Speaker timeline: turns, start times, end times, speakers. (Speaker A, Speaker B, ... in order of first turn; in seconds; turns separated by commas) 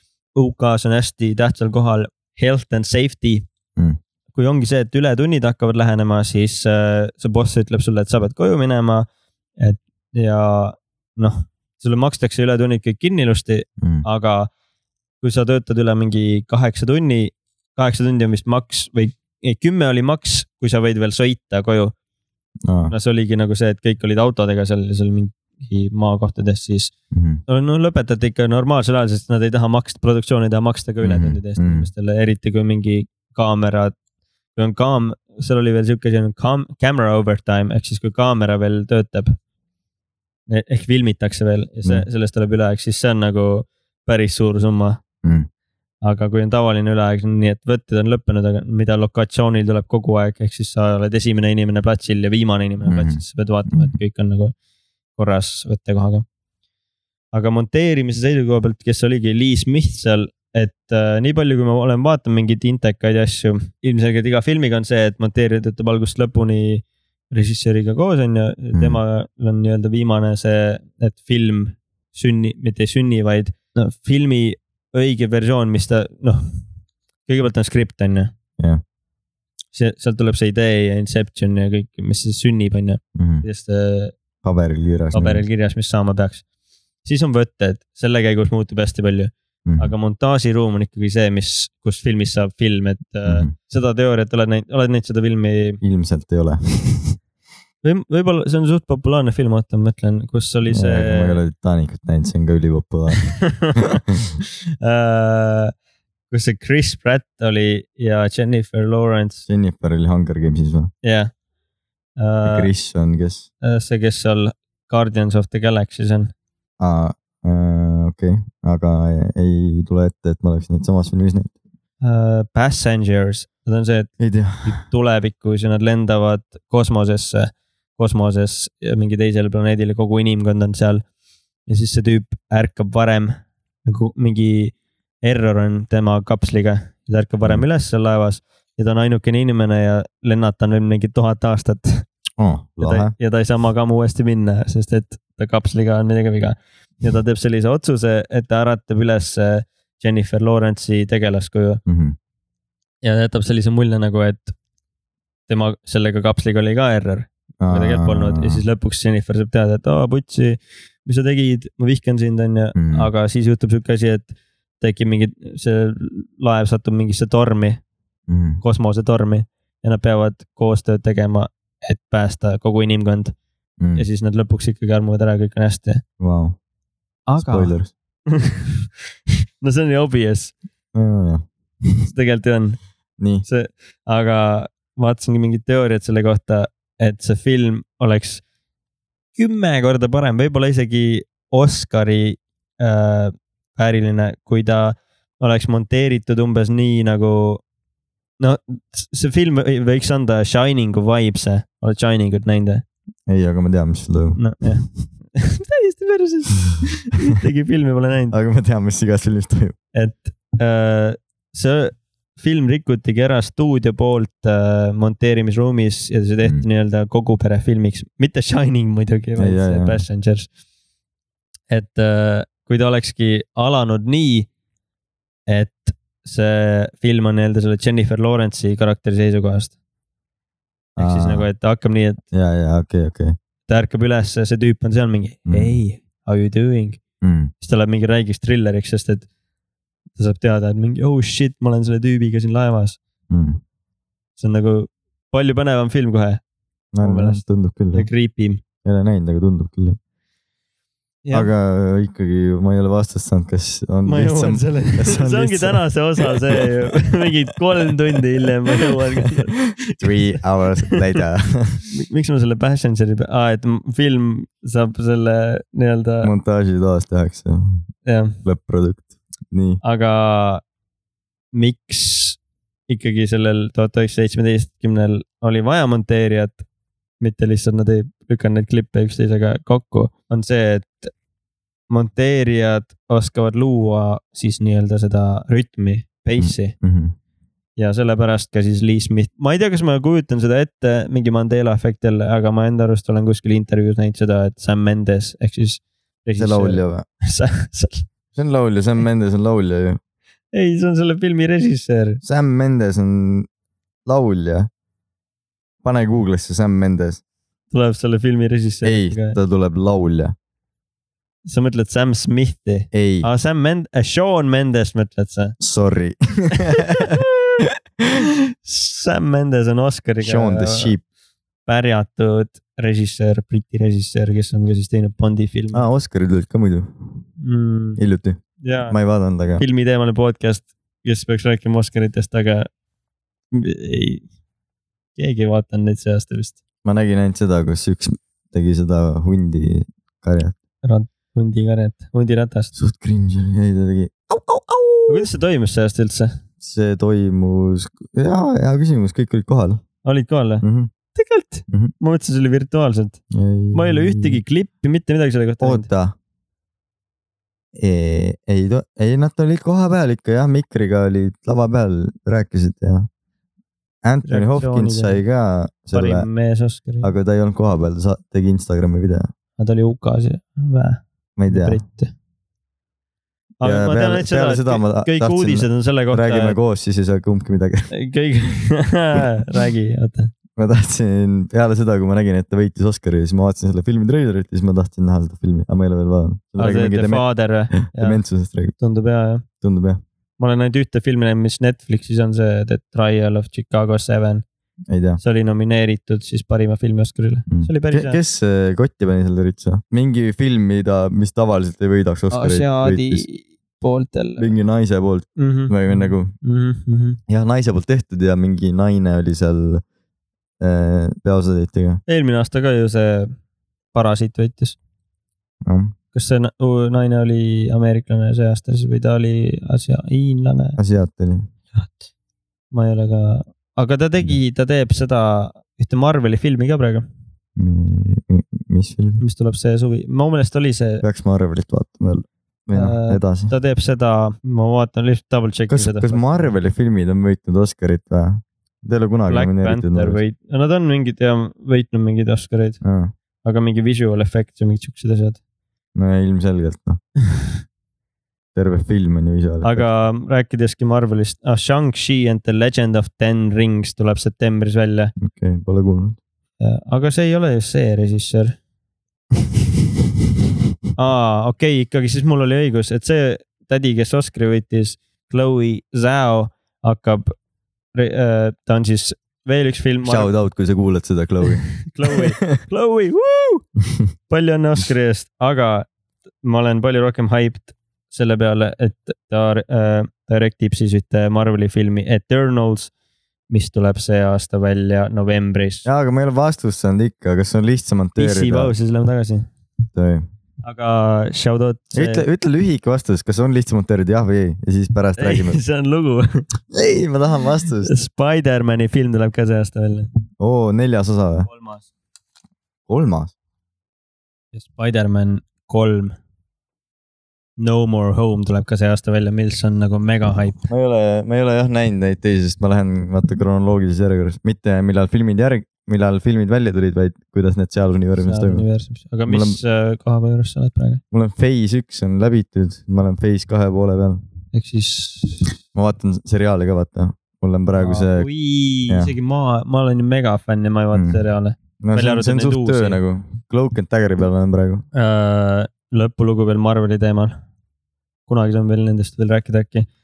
Speaker A: 0.3-3.5, Speaker A: 4.3-14.5, Speaker A: 15.2-21.9, Speaker B: 22.6-22.9, Speaker A: 22.9-26.9, Speaker B: 27.1-27.4, Speaker A: 27.5-34.0, Speaker B: 31.0-31.9, Speaker A: 34.6-39.4, Speaker A: 40.5-45.0, Speaker A: 46.0-54.5, Speaker B: 52.8-54.0, Speaker A: 55.2-56.2, Speaker A: 57.3-76.6, Speaker B: 68.7-69.0, Speaker A: 77.3-78.3, Speaker A: 79.7-84.1, Speaker B: 83.2-83.5, Speaker B: 84.4-85.5, Speaker A: 85.1-86.4, Speaker A: 87.0-95.8, Speaker B: 89.7-89.9, Speaker B: 93.3-93.5, Speaker B: 95.8-97.2, Speaker A: 97.8-101.4, Speaker B: 100.7-104.3, Speaker A: 103.1-104.0, Speaker A: 104.8-105.7, Speaker A: 106.3-109.5, Speaker B: 109.5-110.9, Speaker A: 111.0-111.3, Speaker A: 112.2-112.7, Speaker B: 112.5-113.5, Speaker A: 113.6-116.3, Speaker B: 116.8-121.5, Speaker A: 122.0-124.1, Speaker B: 124.2-124.8, Speaker A: 124.6-131.0, Speaker A: 131.7-142.1, Speaker B: 142.4-143.1, Speaker A: 142.8-151.8, Speaker B: 151.9-152.2, Speaker A: 153.0-154.5, Speaker A: 155.5-167.8, Speaker B: 157.6-158.6, Speaker B: 162.8-163.1, Speaker B: 168.3-168.6, Speaker A: 168.6-173.3, Speaker B: 173.8-174.1, Speaker A: 174.0-176.0, Speaker B: 176.2-176.6, Speaker A: 177.3-177.7, Speaker B: 177.4-177.9, Speaker A: 178.3-178.9, Speaker A: 179.6-180.5, Speaker B: 180.9-182.1, Speaker A: 182.1-182.8, Speaker B: 183.2-183.5, Speaker A: 183.5-188.4, Speaker A: 189.4-197.6, Speaker A: 198.4-202.8, Speaker B: 203.3-204.8, Speaker A: 204.4-204.8, Speaker A: 205.3-208.3, Speaker B: 208.3-209.8, Speaker A: 209.9-220.5, Speaker B: 219.4-220.0, Speaker A: 221.7-224.5, Speaker A: 225.5-229.7, Speaker B: 231.0-231.5, Speaker A: 231.0-232.2, Speaker B: 232.3-233.4, Speaker A: 233.7-237.0, Speaker B: 235.5-235.8, Speaker B: 237.2-237.5, Speaker A: 237.6-239.3, Speaker A: 240.2-243.0, Speaker B: 243.3-243.6, Speaker A: 244.4-246.4, Speaker B: 246.9-248.1, Speaker A: 247.0-248.6, Speaker B: 248.8-250.0, Speaker A: 251.2-251.5, Speaker B: 251.3-257.1, Speaker A: 254.1-260.4, Speaker B: 258.8-259.3, Speaker B: 260.0-261.8, Speaker A: 261.9-266.3, Speaker B: 266.2-267.9, Speaker A: 268.1-268.4, Speaker B: 268.4-269.8, Speaker A: 269.8-270.6, Speaker A: 271.5-276.6, Speaker A: 277.2-281.1, Speaker A: 281.9-286.8, Speaker B: 286.4-287.1, Speaker A: 287.8-298.1, Speaker B: 296.4-297.1, Speaker B: 298.4-300.0, Speaker A: 300.5-302.2, Speaker B: 302.2-303.5, Speaker B: 304.1-304.7, Speaker B: 305.8-307.2, Speaker A: 307.7-309.4, Speaker B: 308.8-310.4, Speaker A: 311.4-315.6, Speaker B: 312.9-313.3, Speaker B: 315.6-317.2, Speaker A: 316.8-317.6, Speaker A: 318.6-320.9, Speaker B: 320.2-321.0, Speaker A: 321.7-325.8, Speaker B: 325.7-326.9, Speaker A: 327.4-328.0, Speaker B: 328.0-329.6, Speaker A: 328.6-328.9, Speaker A: 329.6-332.7, Speaker A: 333.5-334.2, Speaker A: 335.2-336.6, Speaker B: 336.9-340.6, Speaker A: 340.8-342.7, Speaker B: 342.8-345.3, Speaker A: 345.1-346.4, Speaker B: 346.6-349.8, Speaker A: 350.0-350.6, Speaker B: 350.6-350.9, Speaker A: 351.1-353.2, Speaker B: 353.3-354.4, Speaker A: 353.7-355.9, Speaker B: 355.6-356.1, Speaker B: 357.8-363.1, Speaker B: 364.0-366.3, Speaker A: 364.2-365.2, Speaker A: 365.9-367.1, Speaker B: 367.0-369.3, Speaker A: 369.6-372.1, Speaker B: 371.4-371.8, Speaker A: 373.6-376.6, Speaker B: 373.6-377.9, Speaker A: 377.9-380.3, Speaker B: 380.6-388.8, Speaker A: 386.6-388.2, Speaker A: 388.8-389.4, Speaker B: 389.6-390.0, Speaker A: 390.4-394.4, Speaker B: 394.9-395.2, Speaker A: 395.2-398.2, Speaker B: 397.5-403.2, Speaker A: 402.3-404.5, Speaker B: 404.4-406.3, Speaker A: 405.4-407.2, Speaker B: 407.3-409.8, Speaker B: 410.6-412.0, Speaker A: 412.1-413.3, Speaker A: 413.9-414.8, Speaker B: 415.6-415.9, Speaker A: 416.1-420.8, Speaker B: 420.8-421.5, Speaker A: 422.7-427.1, Speaker B: 427.6-429.2, Speaker A: 429.2-431.0, Speaker B: 431.0-433.5, Speaker A: 432.7-436.5, Speaker B: 435.7-440.2, Speaker A: 439.3-442.8, Speaker B: 442.8-443.1, Speaker A: 443.4-445.4, Speaker B: 446.0-447.0, Speaker B: 448.6-450.1, Speaker A: 449.6-455.1, Speaker B: 455.2-456.2, Speaker A: 456.6-458.6, Speaker A: 461.0-467.3, Speaker A: 467.9-470.3, Speaker B: 470.0-472.6, Speaker A: 471.4-473.6, Speaker A: 474.3-475.9, Speaker A: 476.4-482.9, Speaker A: 483.5-485.9, Speaker B: 485.9-488.7, Speaker A: 488.2-489.5, Speaker B: 489.9-490.3, Speaker A: 490.6-492.3, Speaker B: 491.9-495.6, Speaker A: 495.2-496.4, Speaker B: 496.7-497.9, Speaker A: 497.8-500.1, Speaker B: 500.4-501.5, Speaker A: 501.5-501.9, Speaker B: 502.9-503.3, Speaker A: 504.5-506.2, Speaker A: 507.6-510.6, Speaker B: 510.6-518.7, Speaker A: 518.2-521.0, Speaker B: 519.3-519.6, Speaker B: 521.1-524.2, Speaker A: 524.5-525.5, Speaker B: 525.7-528.3, Speaker A: 527.8-533.0, Speaker B: 530.9-531.2, Speaker B: 531.8-534.9, Speaker A: 534.9-537.4, Speaker A: 538.3-539.9